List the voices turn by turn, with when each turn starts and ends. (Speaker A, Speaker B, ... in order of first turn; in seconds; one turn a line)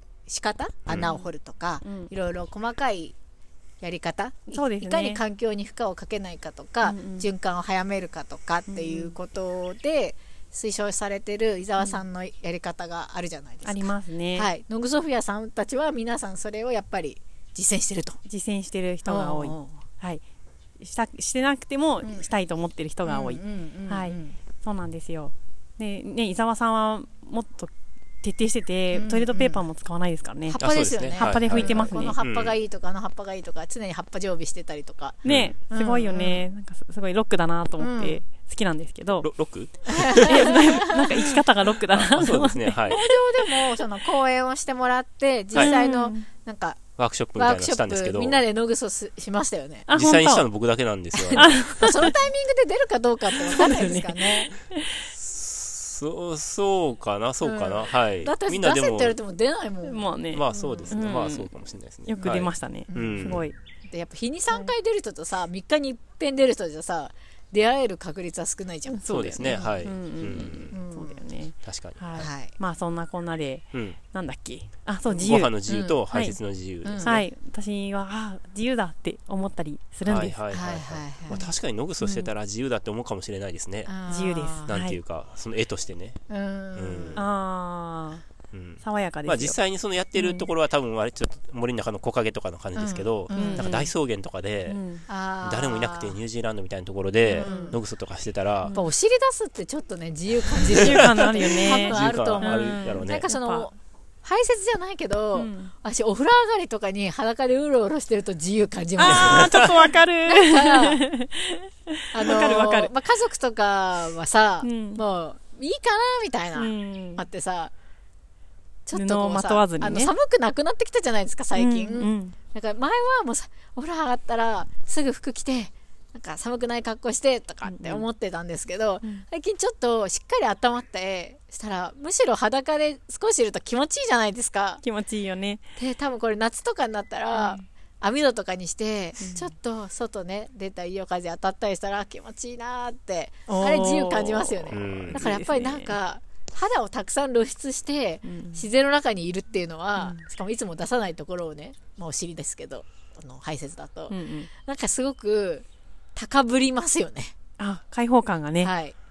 Speaker A: 0.3-3.2
Speaker B: 0.9-1.1
Speaker C: 1.9-2.1
Speaker A: 3.8-18.2
Speaker C: 4.5-5.2
Speaker C: 6.8-7.3
Speaker C: 8.7-9.1
Speaker C: 13.7-14.5
Speaker C: 18.3-20.2
Speaker A: 19.1-19.8
Speaker C: 20.8-27.7
Speaker A: 23.1-24.4
Speaker C: 28.2-32.2
Speaker A: 28.9-29.6
Speaker A: 30.5-36.4
Speaker B: 30.6-32.5
Speaker B: 35.2-35.5
Speaker C: 35.3-39.3
Speaker A: 37.8-38.2
Speaker B: 39.2-40.8
Speaker A: 39.9-41.2
Speaker C: 40.2-43.2
Speaker B: 41.9-43.0
Speaker A: 42.9-49.9
Speaker C: 45.5-46.2
Speaker B: 47.0-48.4
Speaker C: 49.9-50.5
Speaker B: 49.9-51.6
Speaker A: 51.1-54.5
Speaker C: 51.3-52.1
Speaker C: 53.4-55.0
Speaker B: 55.1-59.2
Speaker A: 57.4-60.9
Speaker C: 59.8-61.5
Speaker B: 60.3-63.4
Speaker C: 62.1-63.5
Speaker A: 62.9-69.8
Speaker C: 68.9-75.5
Speaker B: 69.1-70.7
Speaker A: 70.7-71.2
Speaker B: 71.7-72.0
Speaker A: 72.2-72.5
Speaker B: 75.1-77.2
Speaker A: 75.1-76.0
Speaker C: 76.1-76.4
Speaker A: 76.8-77.2
Speaker C: 77.0-80.4
Speaker B: 80.1-83.9
Speaker A: 80.5-81.5
Speaker A: 83.9-84.7
Speaker C: 84.1-85.0
Speaker B: 84.7-86.2
Speaker A: 86.3-87.2
Speaker B: 86.8-87.2
Speaker C: 87.2-88.2
Speaker B: 88.5-94.8
Speaker C: 88.8-89.6
Speaker C: 90.2-90.5
Speaker A: 92.8-93.8
Speaker C: 93.3-93.9
Speaker C: 94.7-95.0
Speaker A: 95.1-96.2
Speaker B: 95.4-98.7
Speaker C: 97.2-97.8
Speaker A: 97.4-97.8
Speaker C: 98.6-98.9
Speaker A: 98.7-109.7
Speaker C: 100.7-103.7
Speaker B: 100.7-103.3
Speaker C: 105.3-105.7
Speaker C: 109.0-112.9
Speaker B: 109.1-109.7
Speaker A: 110.3-111.0
Speaker A: 112.1-117.7
Speaker C: 114.6-115.0
Speaker C: 116.5-117.2
Speaker A: 118.9-134.8
Speaker C: 118.9-120.1
Speaker C: 121.5-122.3
Speaker C: 127.7-128.1
Speaker C: 134.8-135.6
Speaker A: 135.8-157.3
Speaker C: 137.3-137.6
Speaker C: 139.2-139.5
Speaker C: 143.5-146.0
Speaker B: 144.7-145.2
Speaker C: 148.3-148.6
Speaker C: 150.0-150.2
Speaker C: 154.1-154.5
Speaker C: 157.6-158.7
Speaker A: 158.6-158.9